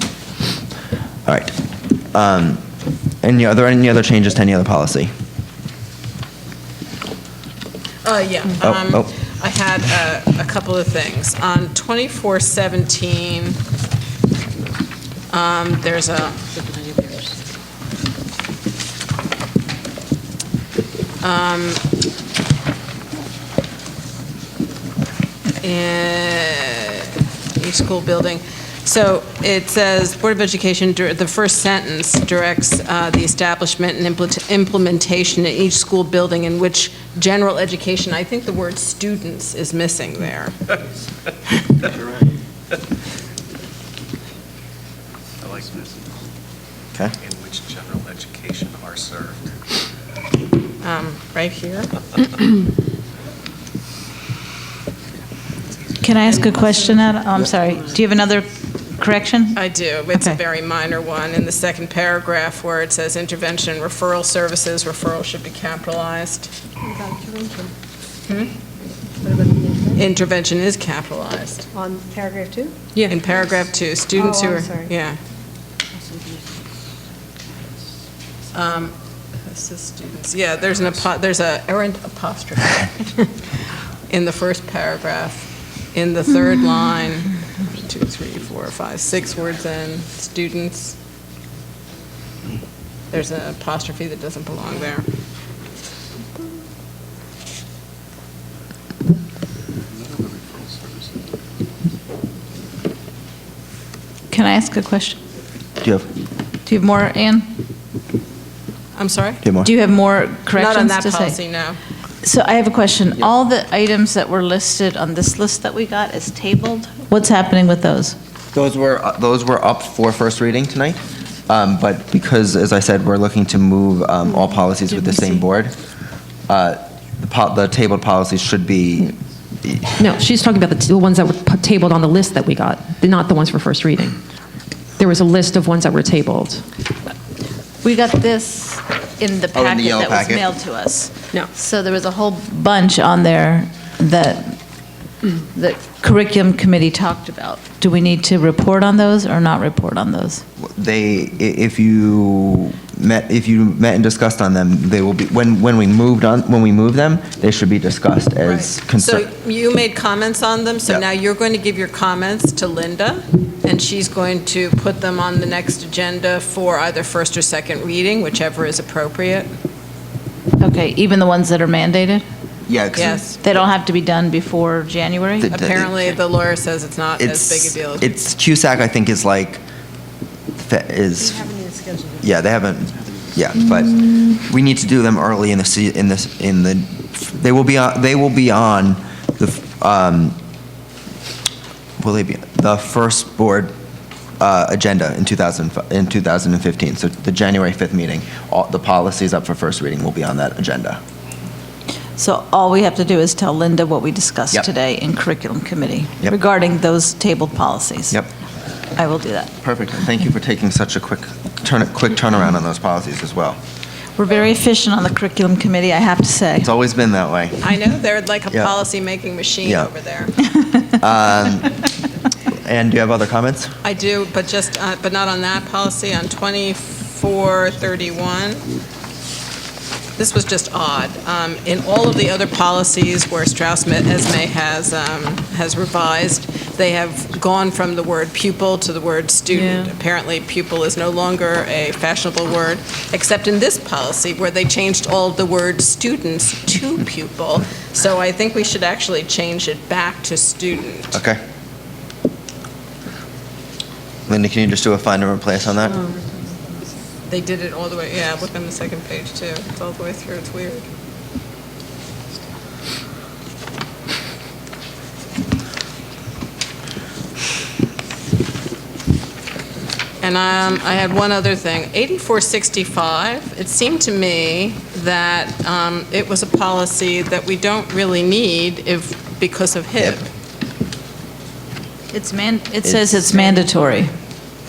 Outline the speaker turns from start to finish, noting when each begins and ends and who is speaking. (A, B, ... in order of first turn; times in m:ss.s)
0:01.3-0:01.6 A
0:02.1-0:02.6 A
0:03.2-0:05.1 A
0:08.0-0:13.6 B
0:08.6-0:09.1 A
0:15.3-0:16.5 B
0:21.2-0:21.8 B
0:25.6-0:40.7 B
0:45.4-0:45.9 C
0:47.2-0:49.5 C
0:50.8-0:52.0 B
0:56.0-0:59.6 D
0:59.5-1:06.5 B
1:06.8-1:07.7 E
1:08.3-1:08.5 B
1:09.2-1:09.9 E
1:10.0-1:11.7 B
1:11.7-1:12.8 E
1:13.1-1:15.2 B
1:14.2-1:14.8 E
1:18.5-1:23.4 B
1:24.1-1:31.0 B
1:33.1-1:35.1 B
1:44.3-1:45.2 D
1:45.8-1:46.1 A
1:46.7-1:47.6 D
1:49.0-1:49.4 B
1:49.4-1:49.7 A
1:49.6-1:51.4 D
1:50.6-1:51.8 B
1:52.2-1:58.2 D
1:58.5-2:05.8 A
2:06.5-2:09.9 A
2:10.0-2:14.2 F
2:15.0-2:16.6 F
2:17.8-2:24.6 D
2:19.5-2:20.5 A
2:25.6-2:30.4 D
2:30.6-2:39.3 A
2:38.4-2:49.5 B
2:50.6-2:52.2 D
2:52.7-2:53.2 A
2:52.9-2:53.4 B
2:53.4-2:55.5 D
2:55.4-2:56.1 A
2:55.5-2:58.2 B
2:57.2-2:59.6 A
3:00.6-3:01.5 A
3:01.5-3:02.2 E
3:02.2-3:10.4 A
3:12.0-3:13.7 A
3:14.4-3:21.0 A
3:22.2-3:28.2 D
3:29.0-3:29.6 D
3:29.6-3:33.6 A
3:34.2-3:36.7 D
3:36.6-3:37.6 A
3:37.6-3:40.4 B
3:38.5-3:38.8 A
3:39.6-3:39.9 A
3:41.0-3:41.8 A
3:42.5-3:43.7 A
3:43.8-3:48.7 B
3:50.2-4:11.2 B
3:59.5-3:59.9 F
4:11.1-4:11.4 A
4:14.3-4:16.0 A
4:17.3-4:20.9 B
4:30.2-4:40.2 B
4:42.1-4:44.1 D
4:42.8-4:43.5 A